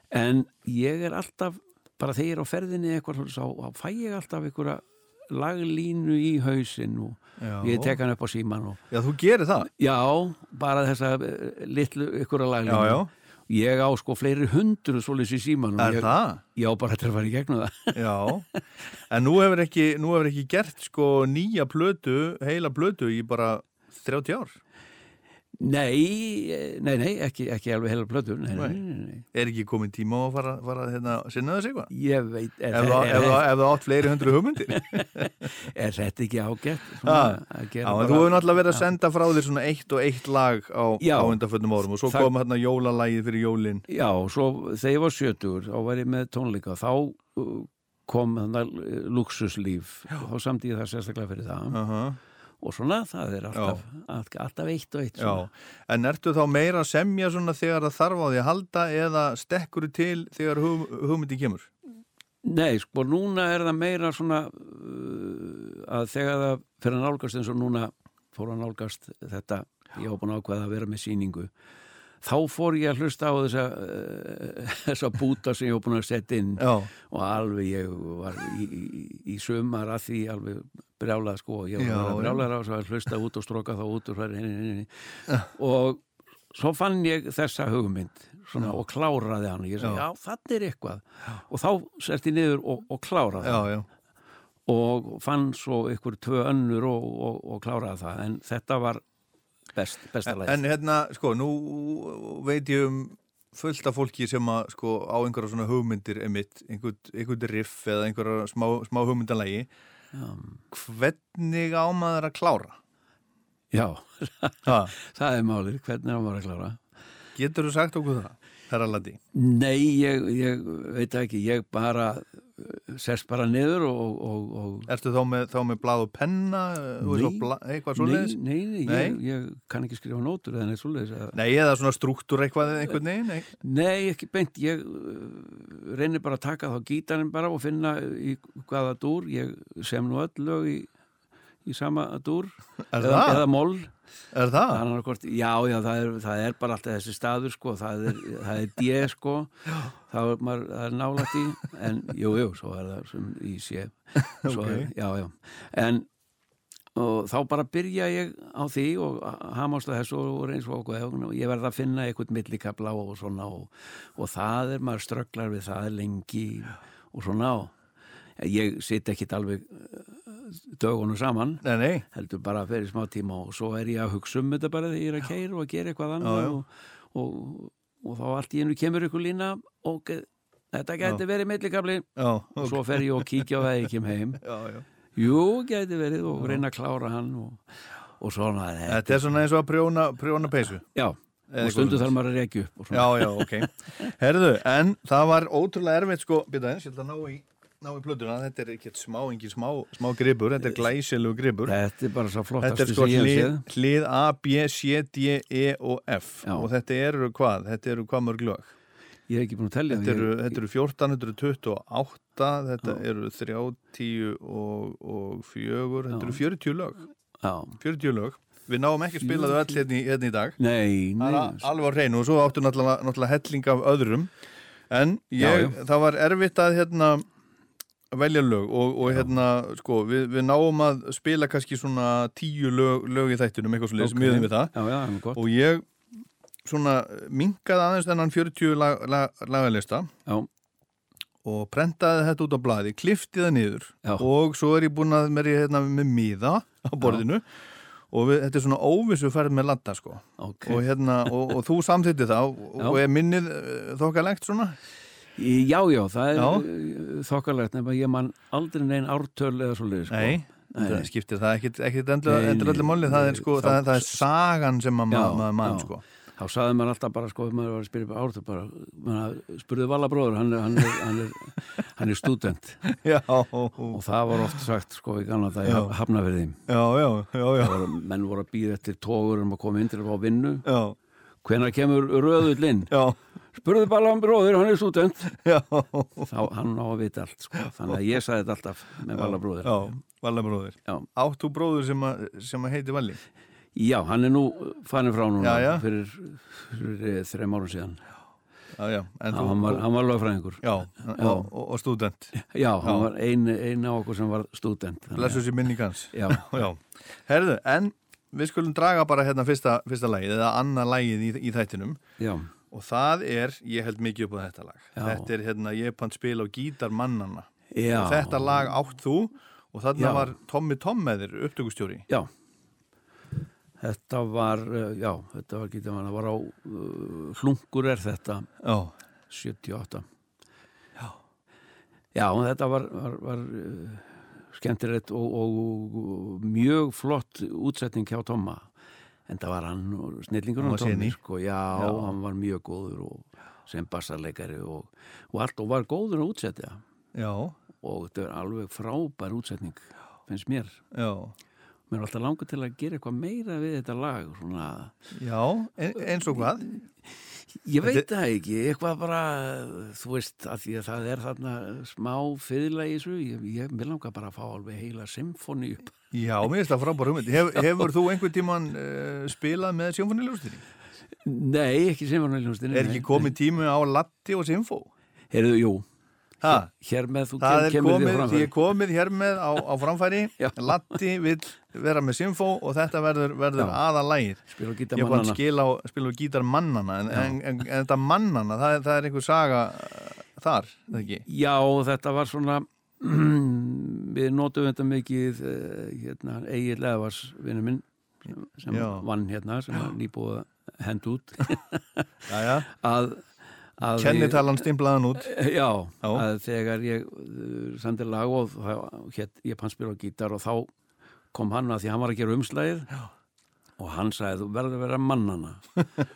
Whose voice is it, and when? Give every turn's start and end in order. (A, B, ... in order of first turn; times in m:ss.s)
0:00.1-0:08.8 A
0:07.4-0:08.0 B
0:08.9-0:09.7 B
0:09.7-0:18.0 A
0:12.7-0:13.1 B
0:15.8-0:16.4 B
0:17.9-0:18.4 B
0:19.1-0:24.6 B
0:25.6-0:29.2 A
0:28.5-0:28.8 B
0:29.3-0:31.9 B
0:31.9-0:33.6 A
0:32.7-0:35.3 B
0:34.7-0:38.9 A
0:37.0-0:43.8 B
0:41.0-0:41.4 A
0:42.1-0:42.3 A
0:43.9-0:51.8 A
0:51.7-0:52.2 B
0:52.6-0:55.5 A
0:53.5-0:53.8 B
0:55.2-1:01.7 B
1:02.4-1:11.5 A
1:12.2-1:24.9 A
1:16.6-1:16.9 B
1:21.8-1:22.5 B
1:25.5-1:26.0 A
1:26.5-1:33.7 A
1:33.4-1:33.9 B
1:34.7-1:39.0 A
1:39.8-1:40.6 A
1:40.2-1:49.7 B
1:50.1-1:50.6 A
1:50.7-1:52.8 B
1:53.7-1:56.8 A
1:54.7-1:54.9 B
1:57.4-1:59.2 B
1:59.3-2:04.9 A
2:04.9-2:09.2 B
2:07.0-2:11.4 A
2:11.4-2:13.5 B
2:13.6-2:20.9 A
2:21.7-2:23.9 A
2:22.9-2:23.5 B
2:24.3-2:24.8 B
2:24.7-2:36.1 A
2:34.4-2:34.9 B
2:37.0-2:47.7 A
2:48.4-3:04.4 A
2:51.6-2:52.0 B
2:56.2-2:56.6 B
3:02.2-3:03.6 B
3:04.4-3:04.8 B
3:05.2-3:07.6 A
3:06.4-3:06.6 B
3:08.2-3:09.3 A
3:08.9-3:10.8 B
3:11.0-3:14.1 A
3:11.5-3:12.2 B
3:12.9-3:21.8 B
3:21.7-3:23.7 A
3:22.6-3:28.7 B
3:29.3-3:30.6 A
3:29.9-3:37.1 B
3:36.1-3:36.4 A
3:37.4-3:37.8 A
3:37.8-3:40.6 B
3:39.2-3:39.8 A
3:40.6-3:41.7 A
3:41.2-3:44.3 B
3:44.9-3:47.2 B
3:45.4-3:45.8 A
3:48.1-3:54.7 B
3:54.0-3:55.4 A
3:55.3-3:55.9 B
3:56.6-4:00.1 B
4:01.4-4:07.5 B
4:08.1-4:14.8 B
4:10.4-4:10.8 A
4:15.4-4:21.1 A
4:16.4-4:16.7 B
4:20.1-4:26.0 B
4:22.2-4:24.2 A
4:25.1-4:32.8 A
4:32.9-4:34.6 B
4:33.9-4:36.6 A
4:35.6-4:35.9 B
4:36.7-4:37.8 B
4:37.6-4:40.7 A
4:40.6-4:41.0 B
4:41.4-4:42.9 A
4:42.9-4:43.2 B
4:43.6-4:45.4 A
4:45.4-4:46.3 B
4:46.3-4:50.0 A
4:49.1-4:53.2 B
4:53.8-4:58.0 A
4:55.4-4:55.8 B
4:58.8-4:59.9 B
4:59.3-5:01.5 A
5:00.6-5:03.1 B
5:02.4-5:05.4 A
5:05.1-5:12.0 B
5:06.1-5:06.6 A
5:12.2-5:12.5 A
5:12.7-5:22.1 B
5:15.0-5:15.3 A
5:17.7-5:18.7 A
5:20.0-5:20.3 A
5:23.8-5:28.5 A
5:28.6-5:28.9 B
5:29.3-5:30.1 A
5:32.2-5:38.7 A
5:39.3-5:46.8 A
5:40.6-5:41.2 B
5:41.7-5:42.1 B
5:47.2-5:47.6 B
5:47.8-5:50.8 A
5:50.9-5:51.3 B
5:51.9-5:54.9 A
5:55.2-5:56.7 B
5:56.2-5:56.7 A
5:57.6-6:05.9 A
6:06.1-6:10.6 B
6:11.2-6:13.4 A
6:12.7-6:14.9 B
6:15.3-6:15.8 A
6:16.4-6:16.7 B
6:16.5-6:18.6 A
6:17.4-6:24.4 B
6:20.4-6:21.0 A
6:24.5-6:25.4 A
6:25.0-6:31.2 B
6:31.3-6:42.0 A
6:38.7-6:39.1 B
6:42.3-6:42.7 B
6:42.7-6:43.2 A
6:43.8-6:44.6 A
6:43.9-6:45.3 B
6:45.2-6:50.7 A
6:51.3-6:52.9 A
6:53.8-6:55.6 A